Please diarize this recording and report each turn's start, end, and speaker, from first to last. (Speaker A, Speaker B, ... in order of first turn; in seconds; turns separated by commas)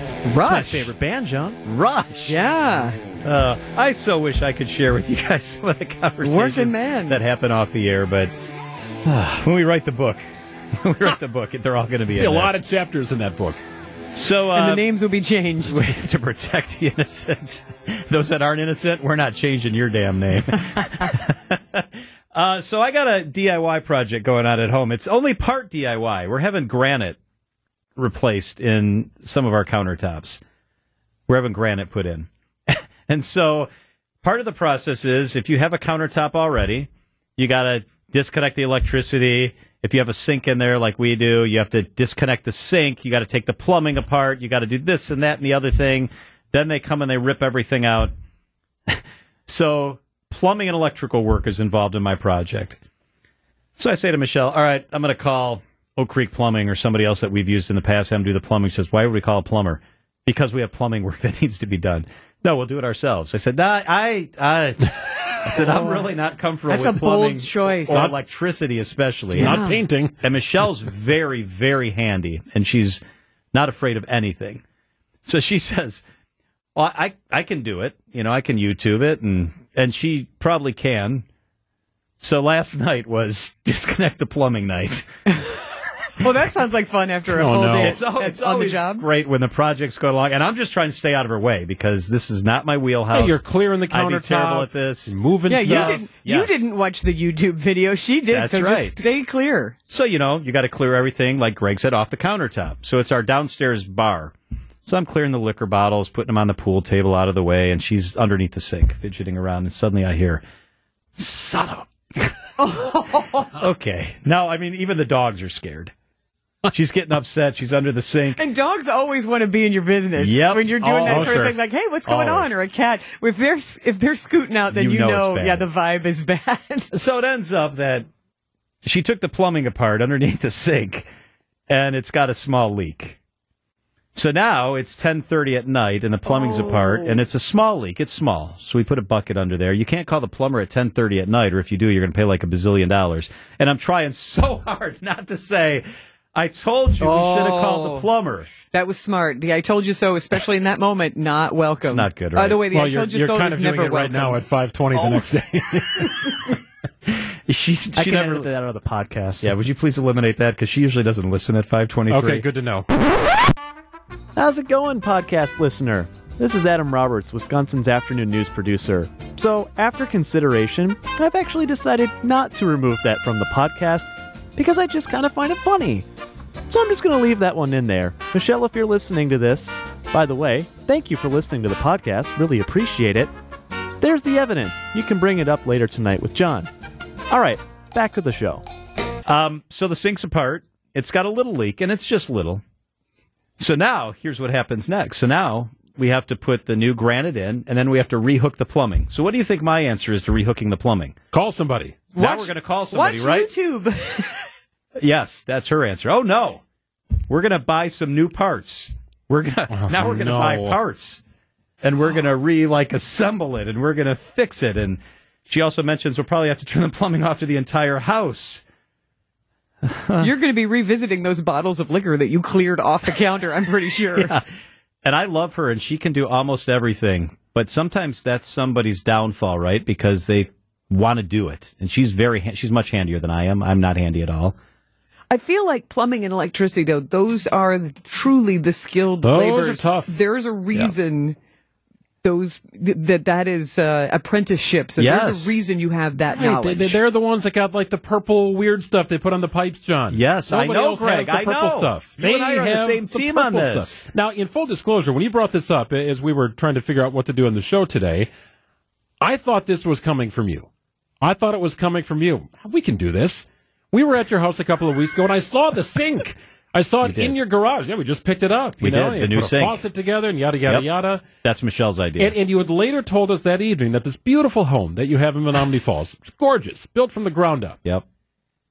Speaker A: 0.3-1.6, Speaker B: 0.3-0.9, Speaker C: 1.6-2.4, Speaker B: 2.3-3.0, Speaker C: 3.2-8.3, Speaker B: 6.2-7.2, Speaker C: 9.1-10.2, Speaker C: 10.8-12.5, Speaker D: 12.1-13.6, Speaker C: 14.1-14.8, Speaker B: 14.5-15.9, Speaker C: 15.7-27.2, Speaker C: 28.0-30.4, Speaker C: 31.3-33.7, Speaker C: 34.2-48.1, Speaker C: 48.9-52.8, Speaker C: 53.8-64.9, Speaker C: 65.4-69.6, Speaker B: 65.5-66.1, Speaker B: 66.7-68.1, Speaker D: 67.9-68.2, Speaker D: 69.3-70.1, Speaker B: 69.3-69.8, Speaker C: 70.2-73.0, Speaker C: 73.5-74.6, Speaker C: 75.2-76.0, Speaker C: 76.8-81.3, Speaker C: 82.2-85.0, Speaker B: 85.3-85.6, Speaker B: 86.2-89.0, Speaker D: 87.3-88.0, Speaker C: 87.8-96.7, Speaker D: 93.1-96.0, Speaker B: 95.5-99.8, Speaker C: 98.3-99.0, Speaker C: 99.9-110.4, Speaker C: 111.2-112.3, Speaker B: 112.6-113.5, Speaker C: 113.5-115.9, Speaker C: 116.7-118.4, Speaker B: 118.4-126.9, Speaker C: 120.2-122.6, Speaker D: 121.1-121.6, Speaker C: 124.7-125.7, Speaker C: 126.9-128.1, Speaker C: 128.8-131.1, Speaker C: 131.7-133.2, Speaker C: 134.2-148.5, Speaker B: 136.3-137.1, Speaker B: 147.0-148.1, Speaker B: 148.7-154.4, Speaker C: 151.8-152.6, Speaker D: 152.7-156.4, Speaker B: 154.9-155.3, Speaker C: 157.5-158.5, Speaker A: 158.0-159.5, Speaker C: 159.4-162.5, Speaker D: 162.1-162.9, Speaker A: 164.4-176.1, Speaker A: 176.7-183.3, Speaker A: 184.0-186.7, Speaker A: 187.3-188.6, Speaker C: 189.3-192.6, Speaker C: 193.6-201.2, Speaker D: 201.3-202.0, Speaker B: 202.2-204.5, Speaker C: 202.2-203.5, Speaker C: 205.0-206.6, Speaker C: 207.3-211.2, Speaker D: 209.7-210.8, Speaker C: 211.8-218.6, Speaker C: 219.8-220.3, Speaker B: 220.2-224.4, Speaker C: 224.2-224.4, Speaker C: 225.0-234.6, Speaker B: 235.3-241.4, Speaker D: 239.2-240.1, Speaker B: 242.2-247.0, Speaker C: 245.0-245.6, Speaker D: 246.3-258.3, Speaker C: 250.1-254.0, Speaker D: 259.2-260.7, Speaker D: 261.2-271.2, Speaker C: 267.0-267.3, Speaker C: 268.8-269.8, Speaker C: 271.4-272.4, Speaker D: 272.2-277.8